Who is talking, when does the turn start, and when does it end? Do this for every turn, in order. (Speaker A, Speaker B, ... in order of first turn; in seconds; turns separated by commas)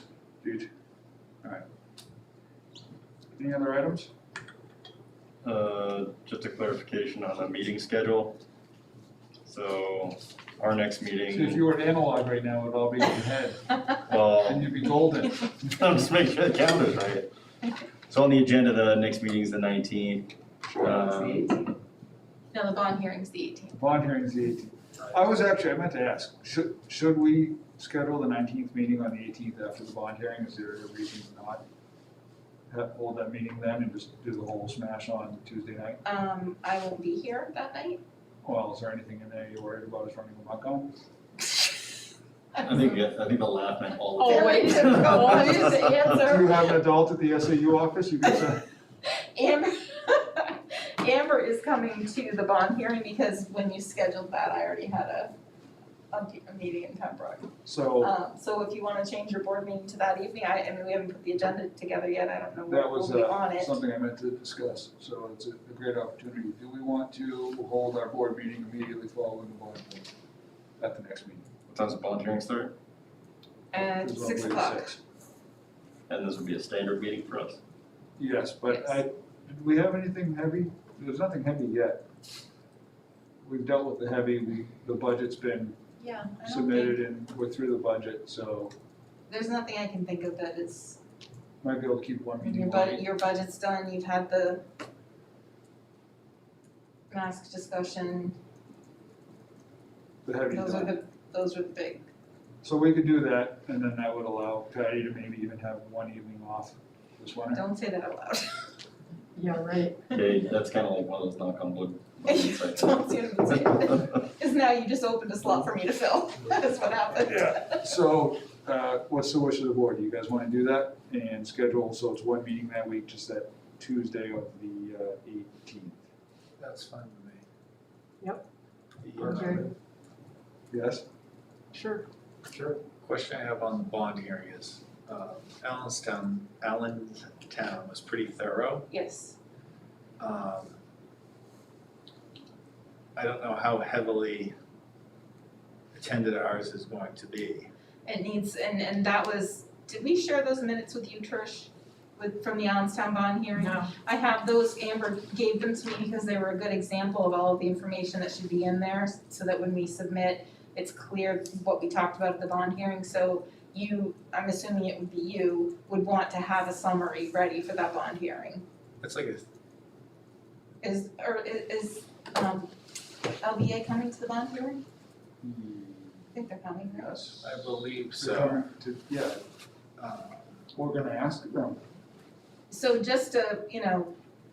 Speaker A: 0.4-0.7, Speaker A: 3.3-4.1, Speaker B: 5.4-8.4, Speaker B: 9.4-11.6, Speaker A: 11.3-15.8, Speaker B: 14.1-14.8, Speaker B: 15.7-17.3, Speaker B: 18.1-21.5, Speaker C: 20.8-21.5, Speaker C: 22.5-23.8, Speaker A: 23.8-31.6, Speaker A: 32.7-36.0, Speaker C: 36.0-38.0, Speaker A: 38.4-40.9, Speaker B: 42.6-45.8, Speaker D: 44.2-45.9, Speaker C: 44.2-46.8, Speaker A: 46.2-48.6, Speaker C: 49.0-55.3, Speaker C: 56.1-63.8, Speaker A: 57.6-58.1, Speaker A: 62.7-70.1, Speaker A: 70.8-71.5, Speaker B: 71.7-72.7, Speaker C: 73.7-74.9, Speaker A: 73.9-75.0, Speaker B: 76.1-77.6, Speaker A: 78.2-82.0, Speaker C: 78.7-79.0, Speaker A: 83.4-85.8, Speaker C: 86.0-87.0, Speaker A: 86.4-88.7, Speaker C: 89.3-91.0, Speaker A: 91.6-93.0, Speaker C: 92.4-94.6, Speaker C: 97.1-98.3, Speaker A: 100.2-100.9, Speaker C: 100.5-102.1, Speaker A: 102.6-107.6, Speaker C: 107.5-108.7, Speaker D: 109.3-110.1, Speaker B: 110.1-113.0, Speaker C: 112.2-117.9, Speaker A: 117.2-126.1, Speaker E: 126.6-127.4, Speaker E: 129.0-129.7, Speaker A: 129.2-129.7, Speaker D: 129.2-129.7, Speaker A: 130.7-131.1, Speaker D: 131.7-132.1, Speaker E: 132.5-138.9, Speaker C: 138.9-139.4, Speaker E: 140.2-140.8, Speaker E: 143.2-144.5, Speaker E: 145.9-147.7, Speaker C: 148.1-168.6, Speaker D: 153.6-153.8, Speaker E: 169.0-169.4, Speaker C: 170.8-172.7, Speaker C: 173.4-174.8, Speaker A: 175.4-176.3, Speaker C: 176.3-177.2, Speaker A: 177.0-177.6, Speaker E: 177.4-178.6, Speaker A: 178.2-179.4, Speaker E: 180.0-180.4, Speaker A: 180.7-181.8, Speaker C: 182.7-184.1